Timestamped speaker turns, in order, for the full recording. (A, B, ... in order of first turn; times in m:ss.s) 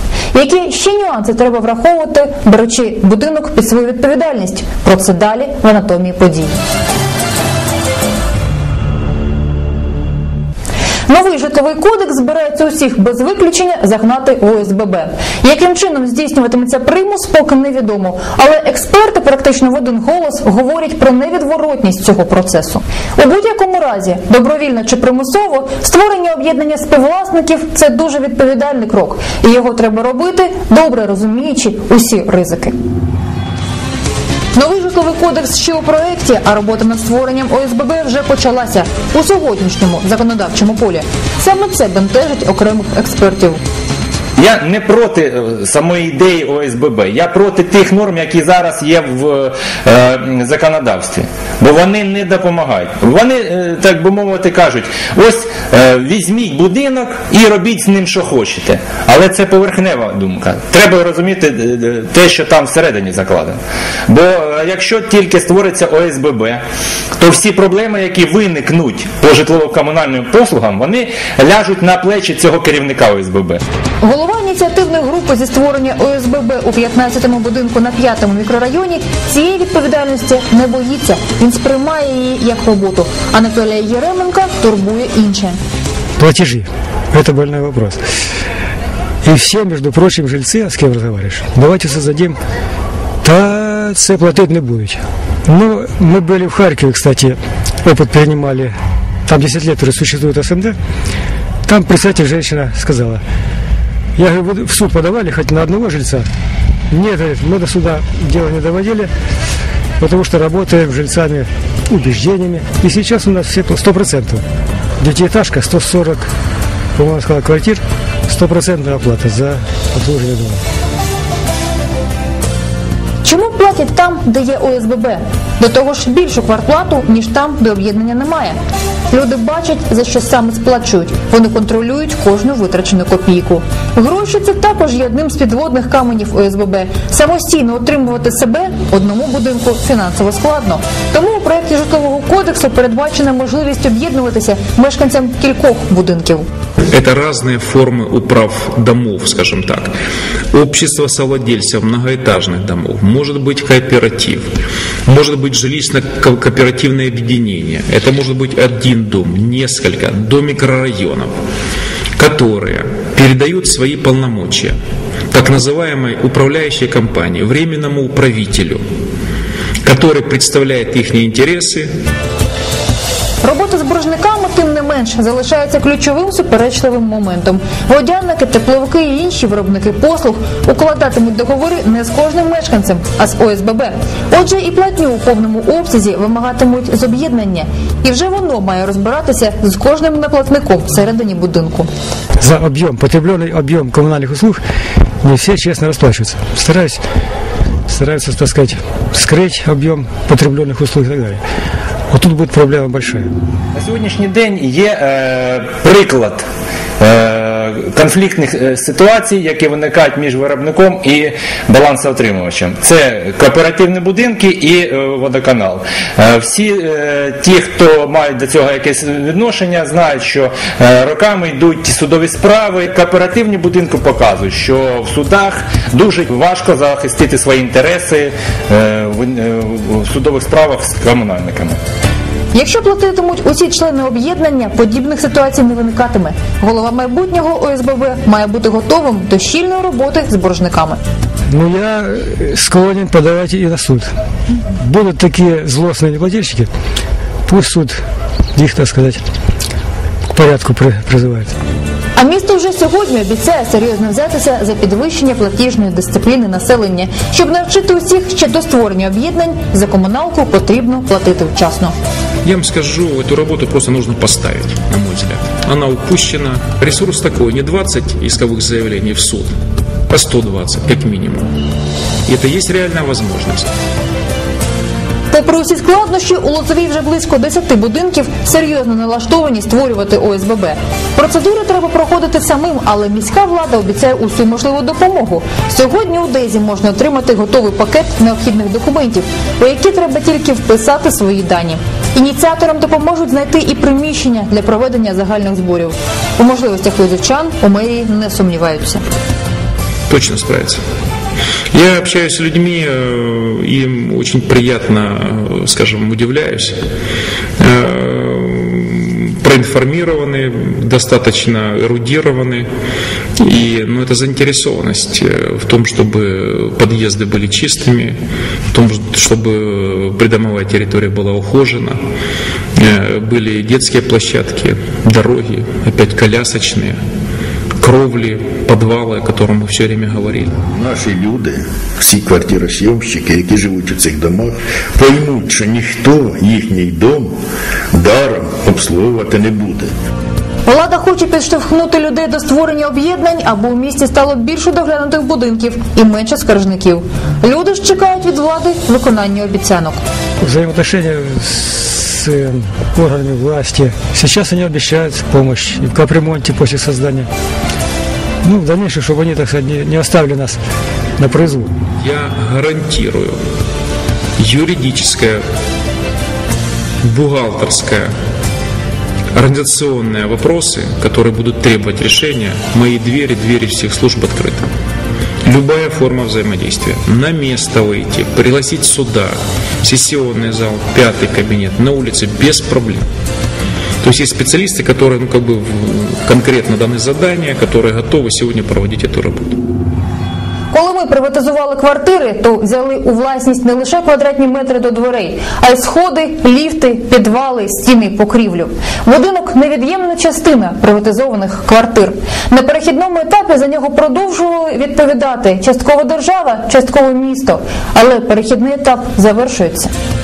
0:00.3-0:06.6 A
0:11.1-0:32.8 A
0:34.6-0:43.6 A
0:44.4-1:06.6 B
1:07.2-1:13.6 B
1:14.0-1:25.6 A
1:26.2-1:28.0 C
1:29.2-1:32.4 C
1:33.2-1:40.8 C
1:41.7-1:43.2 C
1:44.2-1:46.3 C
1:46.9-1:49.1 C
1:50.0-1:54.4 C
1:55.0-1:56.3 C
1:57.0-2:00.6 C
2:03.2-2:08.6 A
2:09.1-2:26.5 A
2:26.9-2:30.0 D
2:30.5-2:41.3 D
2:42.2-2:44.8 D
2:45.3-2:48.8 D
2:49.8-2:51.9 D
2:53.4-3:11.9 A
3:12.4-3:14.6 C
3:15.2-3:17.0 C
3:17.9-3:21.4 C
3:22.1-3:23.3 C
3:23.8-3:26.4 B
3:27.0-3:51.8 B
3:52.5-4:01.0 A
4:01.5-4:04.1 C
4:04.8-4:06.7 C
4:07.5-4:08.0 C
4:08.6-4:09.2 C
4:10.3-4:11.5 C
4:12.2-4:21.9 A
4:22.4-4:29.6 D
4:30.1-4:31.5 D
4:32.3-4:33.7 D
4:35.3-4:59.0 A
5:00.1-5:00.8 D
5:01.7-5:06.8 D
5:07.6-5:12.7 D
5:13.4-5:18.2 D
5:18.7-5:22.0 D
5:22.8-5:27.0 D
5:27.8-5:30.5 D
5:30.6-5:37.3 E
5:37.9-5:39.9 E
5:40.7-5:50.0 A
5:50.4-5:57.3 C
5:58.4-6:00.6 C
6:01.2-6:01.7 C
6:02.0-6:03.4 D
6:04.4-6:05.4 D
6:07.0-6:08.1 D
6:09.4-6:14.7 D
6:15.4-6:23.0 D
6:24.0-6:29.6 D
6:30.7-6:49.9 A